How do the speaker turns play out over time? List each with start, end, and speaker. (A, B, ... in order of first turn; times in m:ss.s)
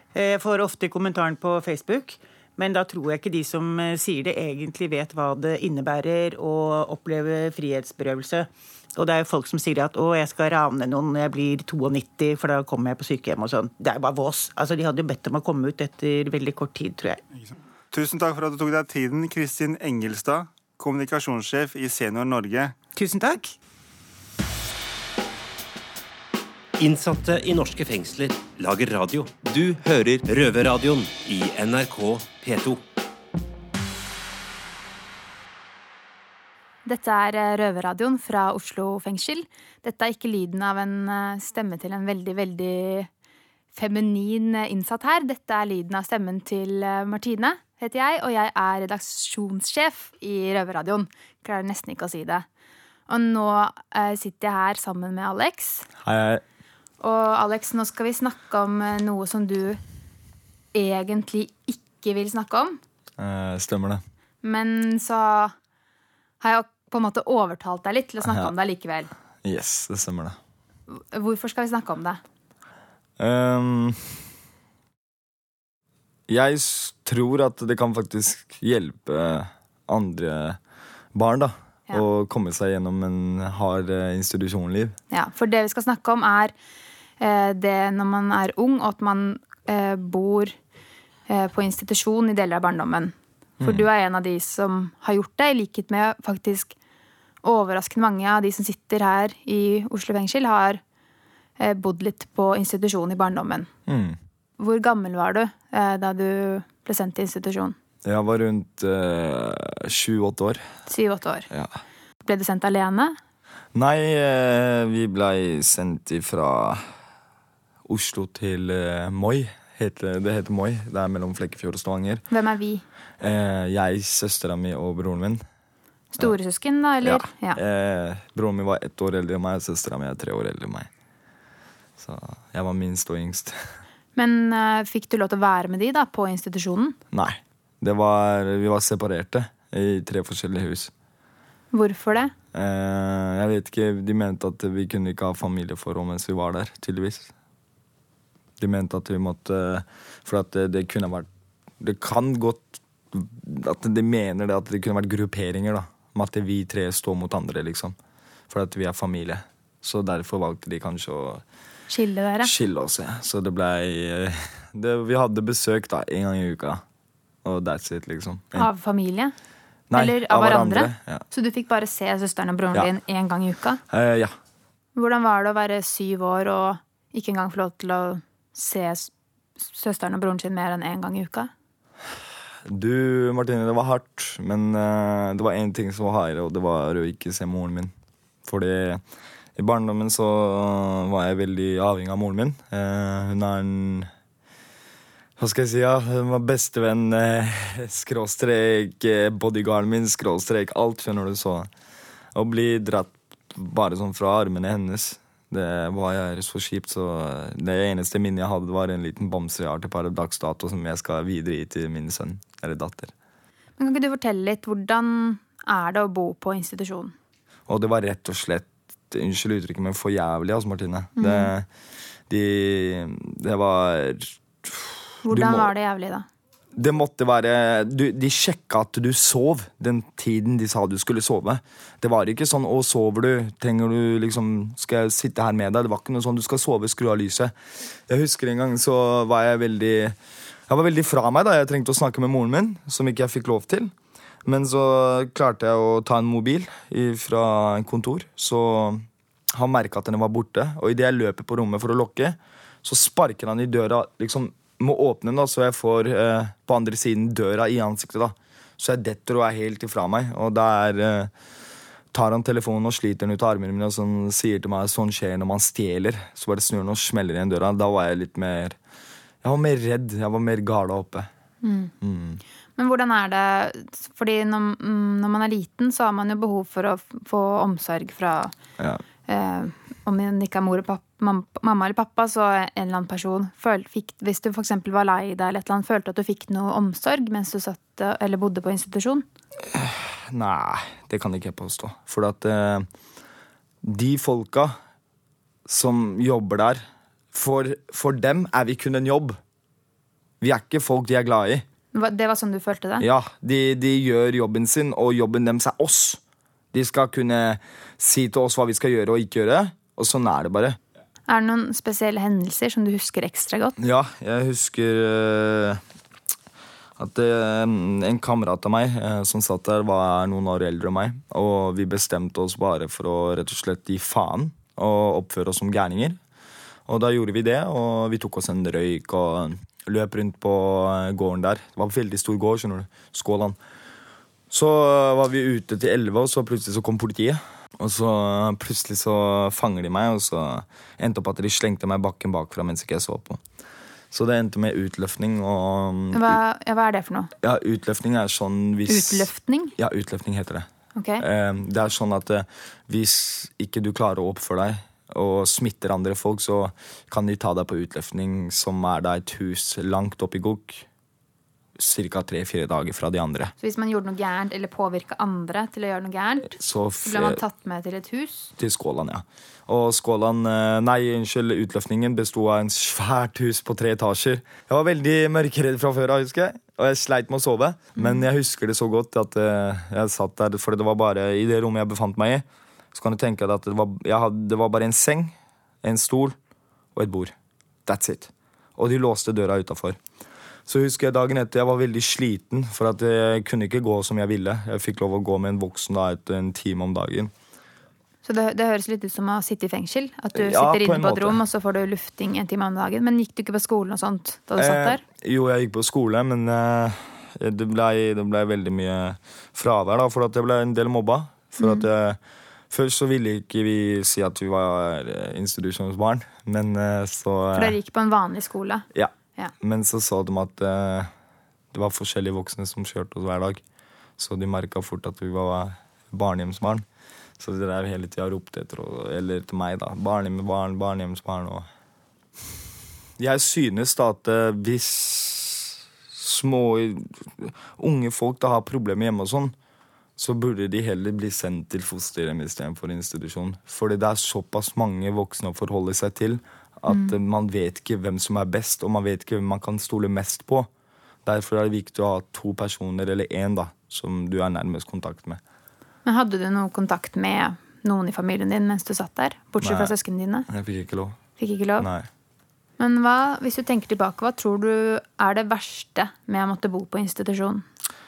0:00.1-0:17.2 A
0:17.4-0:22.8 B
0:23.0-0:23.6 A
0:26.8-0:32.8 C
0:36.8-0:43.1 D
0:43.7-0:52.5 D
0:53.1-0:55.9 D
0:56.0-0:56.4 E
0:57.0-0:59.8 D
1:00.7-1:02.8 D
1:03.2-1:04.0 E
1:04.4-1:05.5 D
1:06.4-1:09.1 D
1:08.2-1:08.5 E
1:09.4-1:10.4 E
1:10.9-1:12.2 D
1:13.2-1:14.2 E
1:16.3-1:20.6 E
1:21.1-1:25.0 E
1:25.1-1:26.5 D
1:27.2-1:30.5 D
1:31.3-1:36.8 D
1:33.6-1:33.9 E
1:37.4-1:40.8 D
1:41.6-1:43.7 D
1:43.9-1:44.2 E
1:44.6-1:47.8 D
1:48.0-1:50.7 E
1:50.9-1:51.5 D
1:52.2-1:53.2 D
1:53.7-1:56.8 E
1:57.9-2:02.2 E
2:02.3-2:02.8 D
2:03.2-2:05.4 E
2:06.1-2:07.6 D
2:07.0-2:10.9 E
2:12.0-2:13.7 E
2:14.2-2:17.0 D
2:17.1-2:20.9 E
2:21.7-2:22.3 D
2:22.5-2:27.3 E
2:28.6-2:31.3 E
2:31.8-2:38.0 E
2:38.5-2:41.4 E
2:41.9-2:42.5 D
2:42.4-2:46.8 E
2:47.4-2:48.7 E
2:48.6-2:49.3 D
2:49.9-2:51.2 E
2:49.9-2:53.8 D
2:53.9-2:54.3 E
2:55.0-3:01.5 D
3:02.6-3:07.9 E
3:08.4-3:09.0 E
3:09.6-3:14.1 E
3:15.4-3:21.7 E
3:22.3-3:33.1 E
3:33.8-3:37.1 D
3:37.7-3:41.7 E
3:41.2-3:41.5 D
3:42.3-3:45.7 E
3:45.2-3:46.3 D
3:46.8-3:57.5 E
3:58.1-4:00.2 E
4:00.7-4:03.9 E
4:04.4-4:21.3 E
4:22.1-4:28.8 E
4:29.4-4:31.3 E
4:31.6-4:31.9 D
4:32.0-4:32.4 E
4:32.8-4:38.5 D
4:39.3-4:49.2 D
4:49.7-4:52.9 E
4:53.8-4:54.8 E
4:55.7-4:56.8 E
4:57.3-4:59.4 E
5:00.4-5:01.6 E
5:01.9-5:03.1 D
5:03.0-5:06.2 E
5:06.7-5:10.8 E
5:11.3-5:13.8 D
5:13.8-5:15.8 E
5:17.0-5:26.2 E
5:26.9-5:33.6 E
5:34.5-5:43.4 E
5:44.1-5:46.4 E
5:46.1-5:47.3 D
5:47.4-5:50.7 E
5:48.9-5:49.7 D
5:51.0-5:51.2 D
5:51.2-6:00.9 E
6:01.8-6:03.5 E
6:03.6-6:08.5 D
6:06.6-6:07.4 E
6:08.6-6:26.4 E
6:18.0-6:18.3 D
6:27.0-6:27.4 E
6:27.9-6:30.0 E
6:30.7-6:37.3 E
6:38.2-6:45.0 D
6:40.3-6:41.4 E
6:44.6-6:52.2 E
6:51.6-6:51.8 D
6:52.7-6:57.8 E
6:57.6-6:58.9 D
6:58.9-7:01.1 E
7:01.7-7:03.6 E
7:04.2-7:06.8 E
7:07.4-7:11.7 E
7:13.2-7:19.6 E
7:20.2-7:30.7 E
7:26.9-7:27.2 D
7:31.3-7:35.4 E
7:36.0-7:40.5 D
7:39.6-7:39.9 E
7:40.5-7:41.2 E
7:41.4-7:41.9 D
7:41.8-7:42.1 E
7:42.8-7:47.6 D